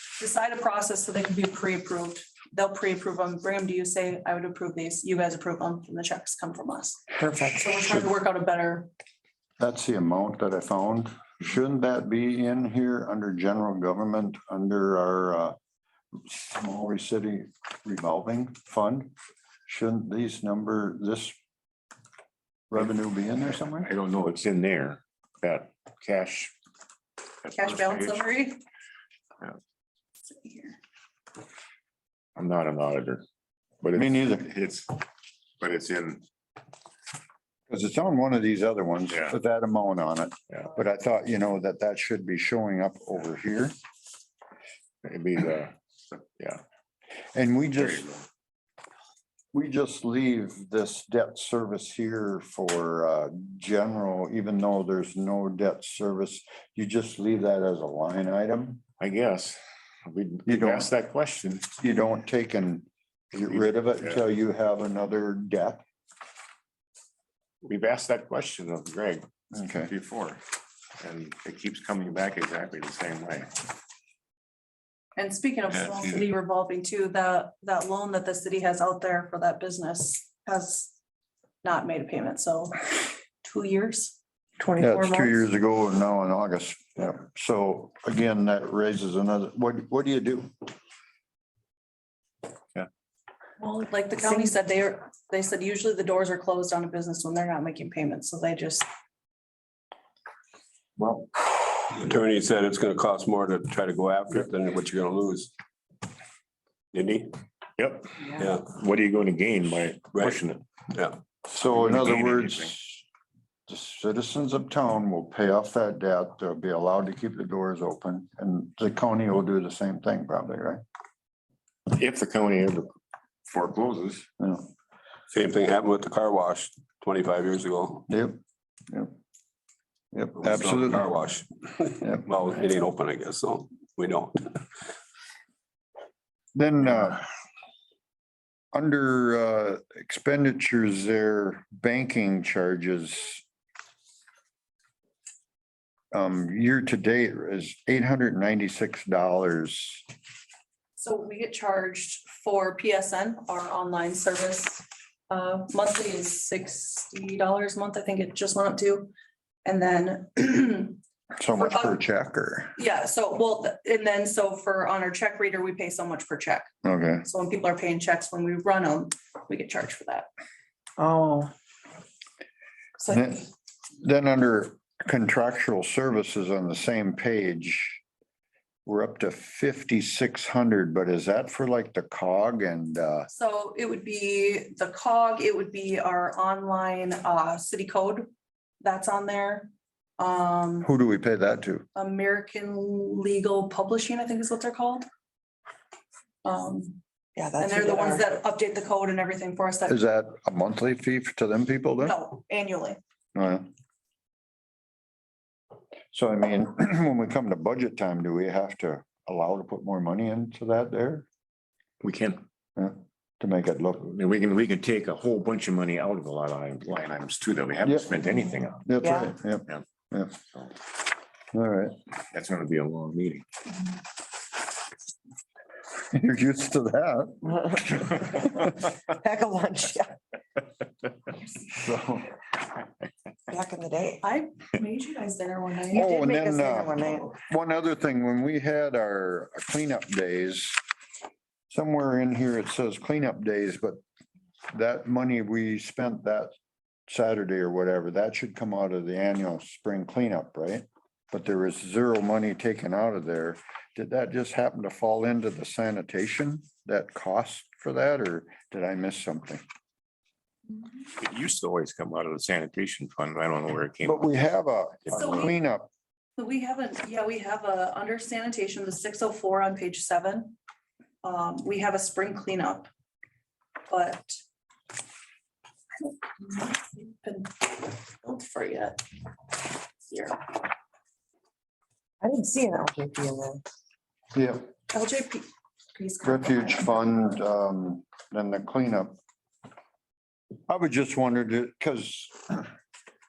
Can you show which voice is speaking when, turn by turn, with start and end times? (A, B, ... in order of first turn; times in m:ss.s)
0:00.2-0:07.0 A
0:07.2-0:07.7 B
0:07.5-0:08.9 A
0:09.6-0:15.5 C
0:16.2-0:19.1 C
0:19.7-0:21.3 C
0:22.7-0:23.9 C
0:23.8-0:26.5 D
0:27.4-0:28.2 D
0:27.5-0:28.6 A
0:30.3-0:30.8 A
0:32.4-0:33.2 D
0:33.8-0:35.0 D
0:33.9-0:34.5 C
0:35.6-0:36.2 D
0:37.7-0:43.7 C
0:39.1-0:39.3 D
0:45.0-0:46.6 D
0:47.3-0:48.0 C
0:47.8-0:48.2 D
0:49.5-0:58.8 C
0:59.0-1:01.7 D
1:00.4-1:00.9 C
1:01.8-1:05.8 C
1:07.6-1:09.3 D
1:09.5-1:09.9 C
1:09.8-1:10.4 D
1:11.0-1:13.5 D
1:15.2-1:20.9 A
1:21.6-1:24.2 A
1:24.6-1:25.3 B
1:24.8-1:30.5 C
1:33.6-1:38.8 A
1:41.0-1:41.2 D
1:41.9-1:45.5 E
1:46.9-1:47.3 E
1:47.8-1:50.6 D
1:48.3-1:48.7 E
1:50.1-1:50.4 E
1:50.9-1:51.2 E
1:51.4-1:53.0 C
1:51.8-1:52.7 D
1:53.7-2:00.8 C
2:01.9-2:03.0 D
2:03.5-2:04.2 D
2:04.4-2:04.7 C
2:05.3-2:08.0 E
2:08.1-2:08.4 C
2:10.1-2:11.0 C
2:10.4-2:14.6 E
2:16.5-2:17.2 C
2:18.7-2:23.4 C
2:26.1-2:30.0 C
2:31.0-2:39.1 A
2:39.6-2:41.0 A
2:41.4-2:42.7 C
2:41.6-2:42.0 A
2:42.8-2:46.7 A
2:46.8-2:47.2 C
2:47.2-2:50.3 A
2:51.0-2:51.5 B
2:53.1-2:53.5 C
2:54.0-2:58.0 C
2:58.8-3:03.3 C
3:03.3-3:08.3 A
3:08.8-3:10.9 A
3:10.8-3:11.8 C
3:11.9-3:15.0 A
3:16.4-3:17.0 A
3:17.4-3:18.2 B
3:17.6-3:20.0 A
3:19.9-3:22.2 C
3:22.0-3:23.0 A
3:23.3-3:23.7 C
3:26.1-3:31.3 C
3:32.0-3:32.4 D
3:32.8-3:34.1 C
3:34.0-3:38.9 D
3:37.8-3:38.1 C
3:38.8-3:40.4 C
3:39.0-3:39.3 B
3:41.5-3:42.0 C
3:42.3-3:43.4 D
3:46.1-3:48.0 C
3:47.5-3:50.2 B
3:51.7-3:52.3 C
3:53.5-3:54.2 B
3:54.2-3:56.1 A
3:55.9-4:00.8 C
3:56.0-3:57.3 B
4:01.7-4:04.0 C
4:04.7-4:06.5 C
4:07.1-4:19.6 C
4:21.2-4:24.5 D
4:24.0-4:25.9 C
4:25.0-4:25.5 D
4:25.1-4:25.5 A
4:26.4-4:30.6 A
4:31.2-4:32.9 A
4:33.9-4:34.3 A
4:36.0-4:40.6 A
4:42.2-4:43.6 B
4:44.3-4:44.7 C
4:44.9-4:47.2 A
4:46.2-4:49.2 C
4:50.7-4:52.7 C